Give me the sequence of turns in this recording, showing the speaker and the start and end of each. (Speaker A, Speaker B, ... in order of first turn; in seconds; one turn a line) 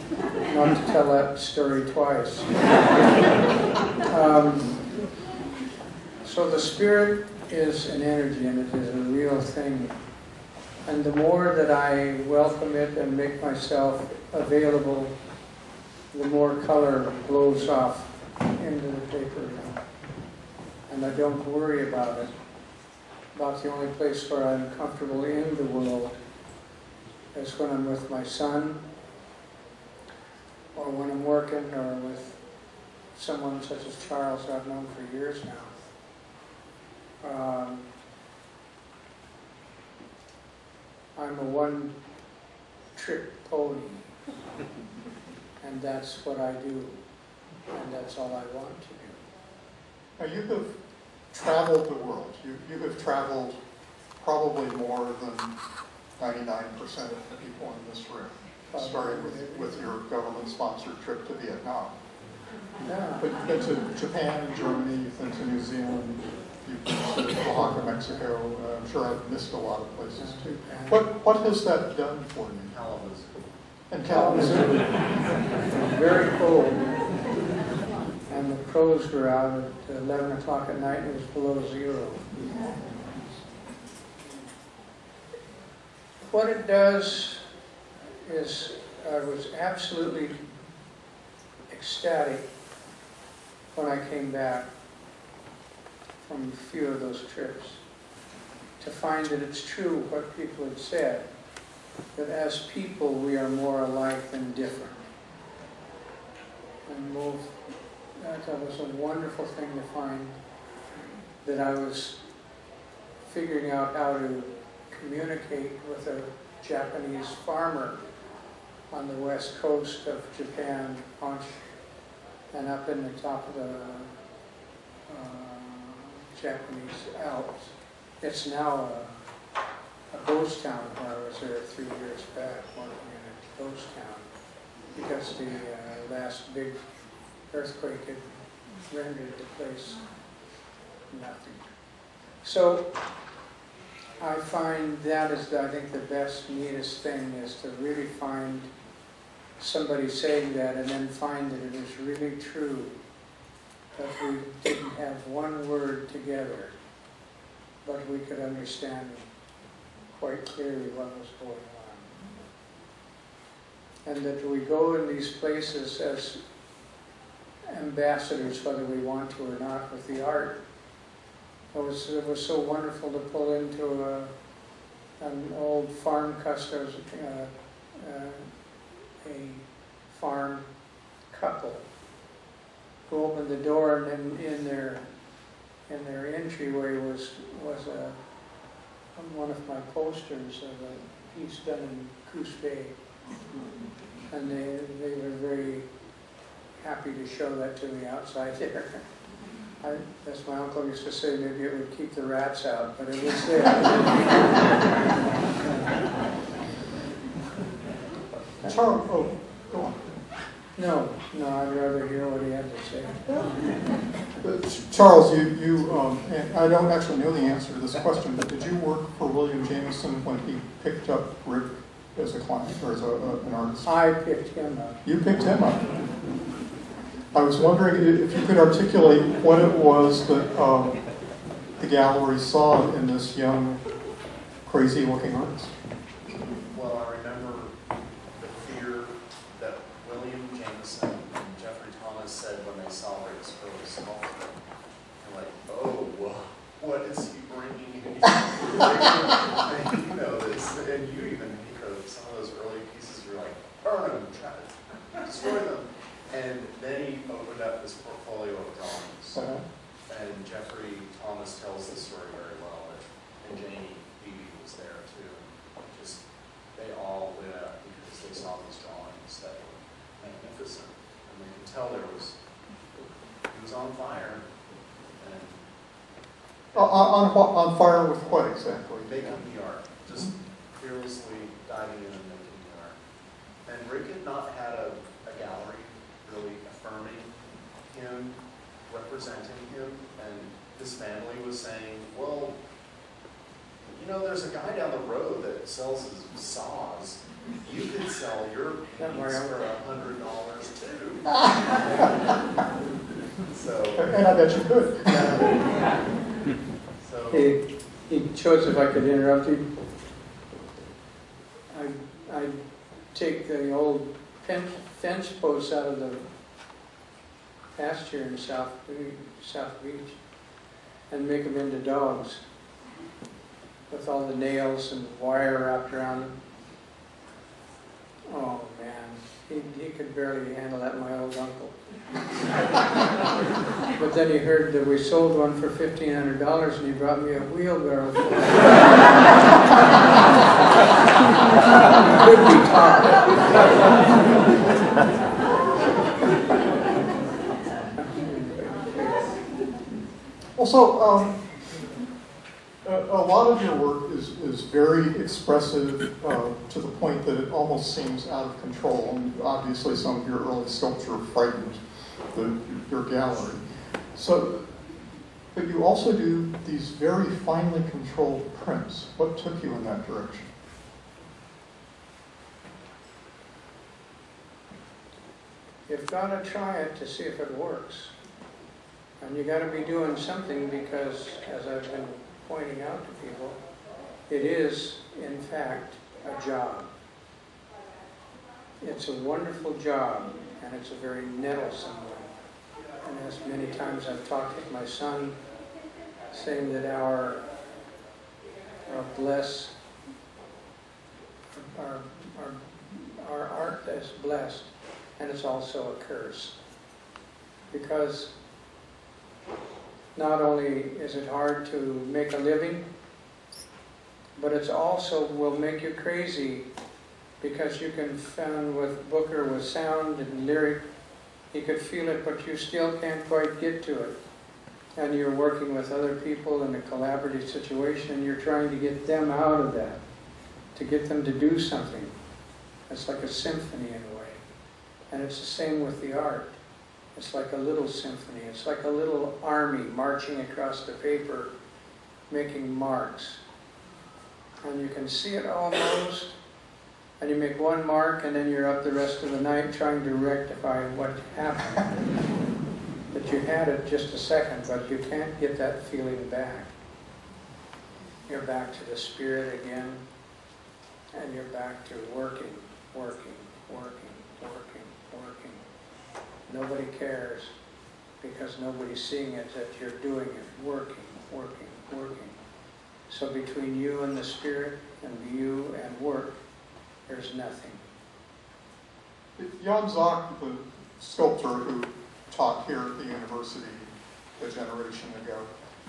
Speaker A: 0.5-2.5
Speaker A: 4.1-4.8
Speaker A: 6.2-9.9
Speaker A: 10.9-15.1
Speaker A: 16.1-19.8
Speaker A: 20.9-22.3
Speaker A: 23.3-26.1
Speaker A: 27.3-28.8
Speaker A: 30.8-32.4
Speaker A: 33.1-35.8
Speaker A: 37.2-37.8
Speaker A: 41.2-41.9
Speaker A: 43.0-44.1
Speaker A: 45.6-47.0
Speaker A: 47.7-49.2
Speaker B: 50.2-50.8
Speaker B: 51.3-53.6
Speaker B: 54.2-55.5
Speaker B: 56.2-62.0
Speaker A: 58.7-59.9
Speaker A: 62.9-63.3
Speaker B: 63.2-72.7
Speaker A: 67.6-68.2
Speaker A: 70.2-71.1
Speaker C: 72.7-73.3
Speaker B: 73.9-74.8
Speaker A: 74.1-75.0
Speaker A: 75.7-76.8
Speaker A: 78.3-83.4
Speaker A: 86.2-87.4
Speaker A: 88.2-90.4
Speaker A: 91.7-92.5
Speaker A: 93.8-94.7
Speaker A: 96.2-97.8
Speaker A: 98.8-101.3
Speaker A: 102.2-105.0
Speaker A: 106.9-107.6
Speaker A: 108.2-110.4
Speaker A: 111.4-112.2
Speaker A: 113.2-118.0
Speaker A: 118.9-121.6
Speaker A: 122.5-124.2
Speaker A: 125.1-129.2
Speaker A: 130.1-134.3
Speaker A: 134.9-136.8
Speaker A: 137.5-138.2
Speaker A: 138.9-140.0
Speaker A: 141.1-141.6
Speaker A: 142.4-142.9
Speaker A: 144.2-148.7
Speaker A: 149.6-153.0
Speaker A: 154.0-156.8
Speaker A: 157.8-159.3
Speaker A: 160.1-162.1
Speaker A: 164.1-166.4
Speaker A: 167.7-170.6
Speaker A: 171.7-174.3
Speaker A: 175.2-178.5
Speaker A: 179.2-180.7
Speaker A: 181.3-181.9
Speaker A: 183.1-185.0
Speaker A: 185.9-188.2
Speaker A: 189.2-193.0
Speaker A: 194.3-195.9
Speaker A: 196.8-199.0
Speaker A: 199.8-204.5
Speaker A: 205.6-206.0
Speaker B: 208.6-210.0
Speaker A: 210.8-213.7
Speaker B: 214.4-223.9
Speaker A: 223.9-225.0
Speaker B: 225.0-225.9
Speaker B: 227.3-231.0
Speaker B: 231.8-233.8
Speaker B: 234.7-235.7
Speaker C: 236.7-237.7
Speaker C: 238.4-244.6
Speaker C: 245.2-259.4
Speaker B: 259.4-259.6
Speaker C: 260.1-266.2
Speaker C: 266.8-272.4
Speaker C: 273.5-274.4
Speaker C: 275.2-275.6
Speaker C: 276.7-277.1
Speaker B: 276.7-279.4
Speaker C: 279.0-283.0
Speaker C: 283.7-287.3
Speaker C: 287.9-292.6
Speaker C: 293.9-302.4
Speaker A: 299.0-299.7
Speaker C: 303.5-304.2
Speaker B: 304.0-305.5
Speaker A: 305.1-305.4
Speaker C: 307.0-307.6
Speaker A: 307.3-309.7
Speaker A: 311.7-312.6
Speaker A: 313.1-316.3
Speaker A: 317.8-320.2
Speaker A: 321.1-322.4
Speaker A: 323.9-326.4
Speaker A: 328.3-331.8
Speaker A: 334.0-339.3
Speaker A: 341.9-343.3
Speaker A: 348.0-349.3
Speaker B: 350.6-351.4
Speaker B: 352.8-363.6
Speaker B: 364.1-364.8
Speaker B: 365.5-370.5
Speaker A: 375.9-378.1
Speaker A: 379.2-383.6
Speaker A: 384.3-386.9
Speaker A: 388.8-392.3
Speaker A: 393.0-395.4
Speaker A: 396.3-397.4
Speaker A: 398.9-399.7
Speaker A: 401.5-406.6
Speaker A: 407.7-408.3
Speaker A: 410.1-412.9
Speaker A: 414.4-416.7
Speaker A: 417.4-420.8
Speaker A: 421.5-424.2
Speaker A: 425.0-430.0
Speaker A: 430.8-432.1
Speaker A: 432.9-434.4
Speaker A: 435.1-436.6
Speaker A: 437.1-441.5
Speaker A: 442.3-443.4
Speaker A: 444.6-446.3
Speaker A: 447.2-452.0
Speaker A: 453.1-456.7
Speaker A: 458.3-460.1
Speaker A: 461.1-465.6
Speaker A: 466.5-467.5
Speaker A: 468.2-472.4
Speaker A: 473.1-476.4
Speaker A: 477.1-477.8
Speaker B: 479.4-485.5